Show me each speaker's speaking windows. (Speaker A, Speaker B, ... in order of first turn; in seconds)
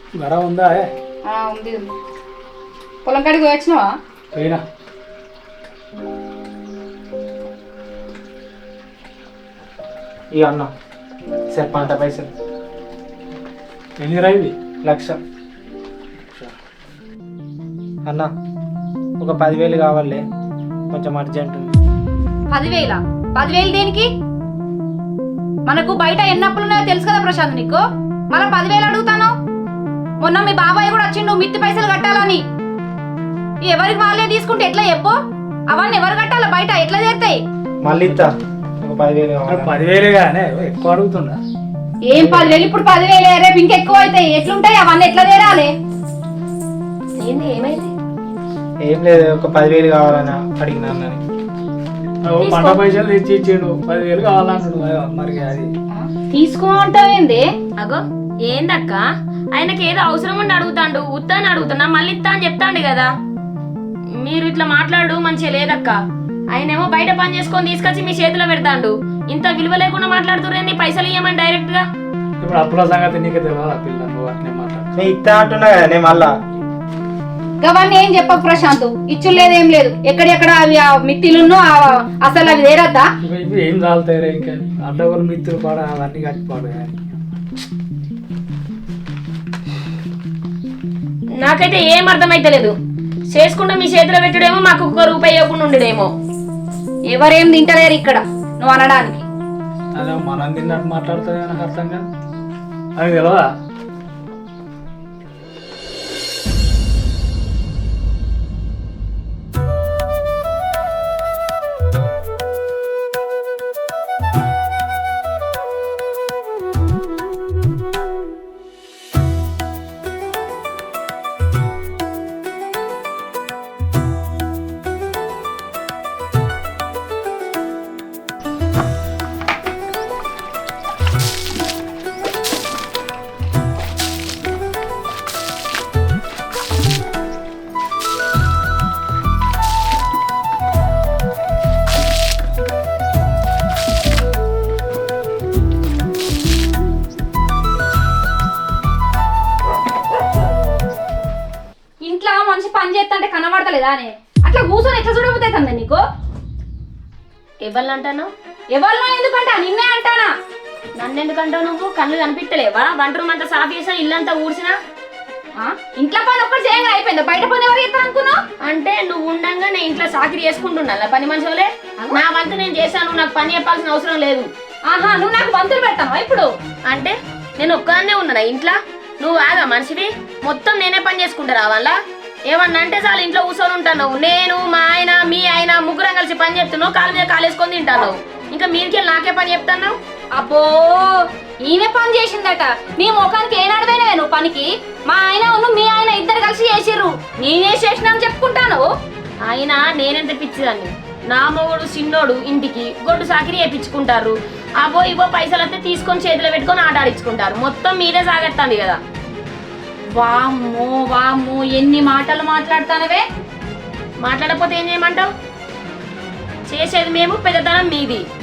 Speaker A: 0.1-0.9, 4.3-4.6, 14.0-14.5, 38.0-38.3, 39.5-41.4, 42.1-42.5, 52.2-55.7, 72.4-74.9, 83.2-87.1, 100.0-102.0, 103.0-103.5
Speaker B: 1.2-1.9, 3.0-3.9, 22.5-24.1, 25.6-29.3, 30.2-32.4, 33.6-35.1, 35.7-37.4, 42.1-45.7, 55.9-57.4, 77.6-83.1, 97.1-99.2, 152.1-156.0, 158.7-160.3, 165.6-168.4, 174.9-176.5, 190.3-198.9, 210.1-213.2
Speaker C: 10.3-10.7, 11.5-12.3, 14.8-15.2, 18.1-18.3, 19.2-20.2, 20.9-21.8, 37.8-39.8, 48.8-51.2, 75.0-76.3
Speaker D: 47.2-47.9, 52.4-52.8, 57.8-59.0, 59.5-63.1, 64.2-66.0, 66.5-71.8, 91.4-92.7, 93.3-96.1, 157.6-158.3, 161.0-164.8, 168.6-174.5, 176.9-181.9, 182.5-189.9, 199.4-209.0, 214.2-215.3, 216.7-218.2